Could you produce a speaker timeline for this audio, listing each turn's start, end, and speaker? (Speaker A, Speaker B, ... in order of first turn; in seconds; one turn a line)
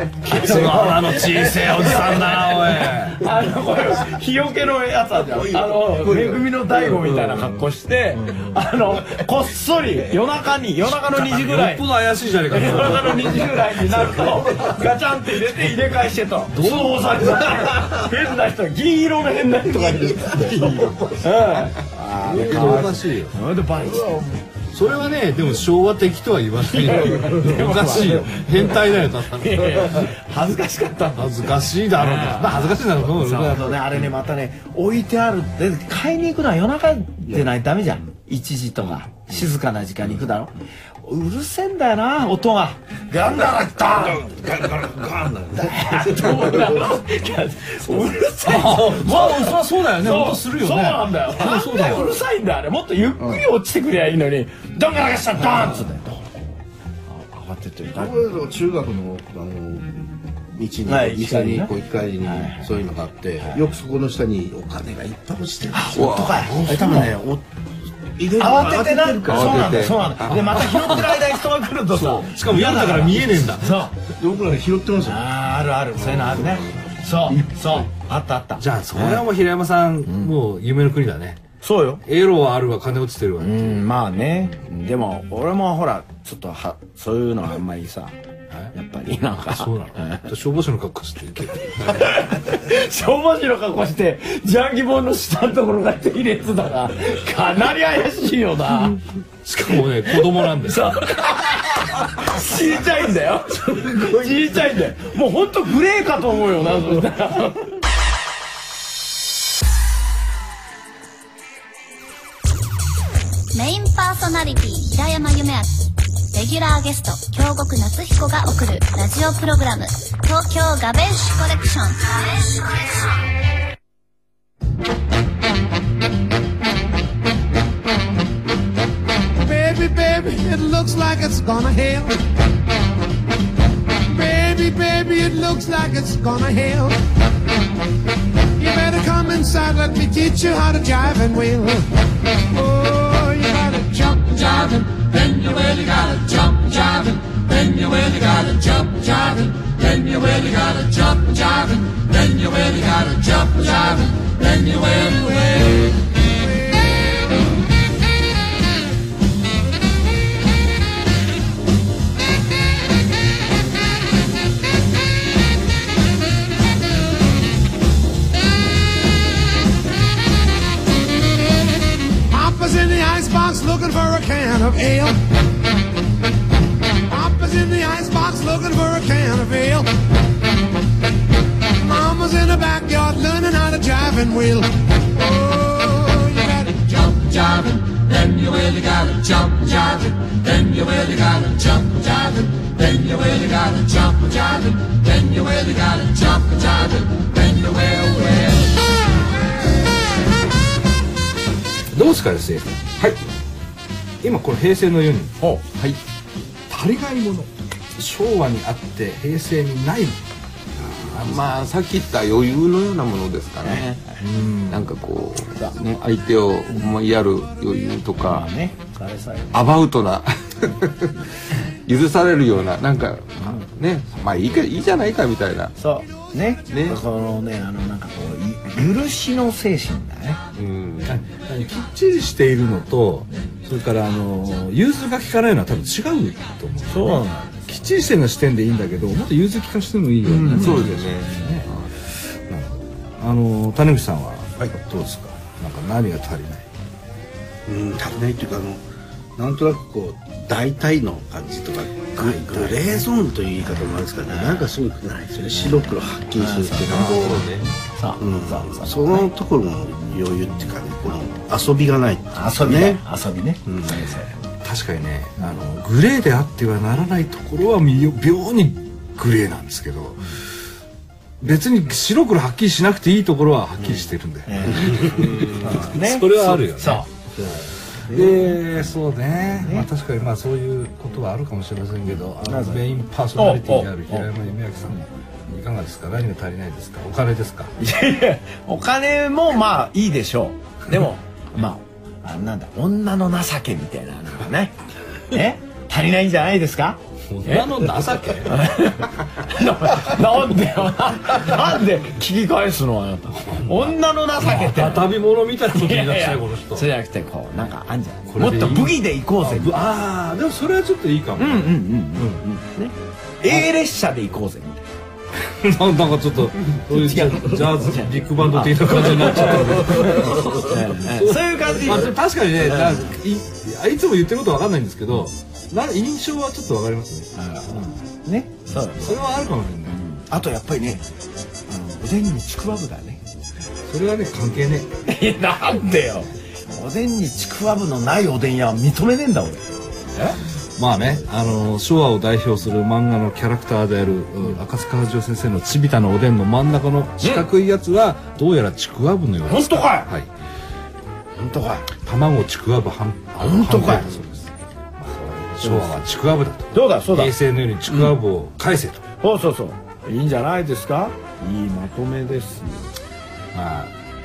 Speaker A: 0.2-3.3
Speaker B: 0.2-11.9
Speaker C: 6.0-6.4
Speaker A: 11.0-13.5
Speaker B: 12.5-24.4
Speaker A: 16.5-17.8
Speaker C: 19.7-21.2
Speaker D: 21.4-21.7
Speaker A: 22.2-23.3
Speaker A: 24.7-30.1
Speaker B: 26.7-44.4
Speaker A: 31.2-34.1
Speaker C: 43.4-47.0
Speaker B: 45.6-56.5
Speaker C: 47.9-48.1
Speaker A: 48.5-52.2
Speaker C: 53.2-53.5
Speaker B: 57.1-58.2
Speaker C: 57.9-67.5
Speaker B: 60.9-61.7
Speaker B: 62.2-62.7
Speaker B: 65.7-67.2
Speaker D: 65.9-66.6
Speaker C: 68.2-70.0
Speaker B: 68.4-74.0
Speaker D: 69.3-70.5
Speaker A: 70.3-71.2
Speaker A: 71.9-73.9
Speaker C: 74.2-75.3
Speaker B: 75.0-79.2
Speaker C: 76.0-76.8
Speaker A: 78.6-81.4
Speaker B: 80.1-80.3
Speaker B: 81.6-82.0
Speaker A: 82.0-83.8
Speaker B: 83.4-88.2
Speaker B: 88.7-90.3
Speaker A: 89.3-92.2
Speaker B: 91.7-99.0
Speaker A: 99.4-101.2
Speaker B: 100.1-107.7
Speaker E: 113.5-115.8
Speaker E: 116.3-123.2
Speaker F: 129.4-132.2
Speaker F: 134.1-137.0
Speaker F: 138.6-141.9
Speaker F: 142.5-155.8
Speaker F: 172.3-175.2
Speaker F: 177.1-179.9
Speaker F: 181.8-198.7
Speaker A: 201.9-202.8
Speaker A: 204.2-205.3
Speaker D: 205.7-206.0
Speaker A: 206.7-210.2
Speaker D: 210.9-214.1
Speaker A: 211.1-211.5
Speaker B: 213.6-214.1
Speaker A: 214.2-214.9
Speaker D: 214.7-218.5
Speaker B: 218.2-219.6
Speaker D: 219.5-221.2
Speaker D: 221.9-225.7
Speaker B: 225.8-230.4
Speaker D: 226.7-227.0
Speaker D: 230.6-231.1
Speaker A: 231.1-246.7
Speaker B: 236.9-237.9
Speaker D: 240.2-241.9
Speaker B: 240.5-240.9
Speaker C: 247.7-248.8
Speaker C: 249.4-257.4
Speaker B: 252.2-252.8
Speaker B: 256.4-259.3
Speaker D: 256.9-257.7
Speaker C: 258.2-263.0
Speaker B: 262.3-264.4
Speaker C: 263.6-264.1
Speaker A: 264.6-270.5
Speaker A: 271.4-277.5
Speaker B: 274.5-277.1
Speaker D: 275.3-275.6
Speaker A: 278.0-287.7
Speaker B: 278.1-278.6
Speaker B: 279.6-279.9
Speaker B: 282.5-282.8
Speaker B: 283.4-284.3
Speaker B: 287.8-294.8
Speaker B: 295.3-297.9
Speaker A: 297.3-298.6
Speaker B: 298.5-309.9
Speaker A: 303.4-306.9
Speaker A: 308.3-312.5
Speaker B: 311.4-314.9
Speaker A: 315.5-327.9
Speaker B: 316.7-323.1
Speaker B: 327.4-329.2
Speaker A: 329.0-330.0
Speaker B: 329.9-331.0
Speaker B: 331.7-333.2
Speaker A: 333.9-334.9
Speaker B: 335.1-340.4
Speaker A: 340.8-350.3
Speaker B: 347.2-347.5
Speaker B: 349.5-350.1
Speaker B: 351.4-351.9
Speaker A: 352.0-359.0
Speaker B: 353.4-354.1
Speaker B: 355.1-356.0
Speaker B: 356.7-357.4
Speaker B: 359.2-362.9
Speaker A: 363.5-363.9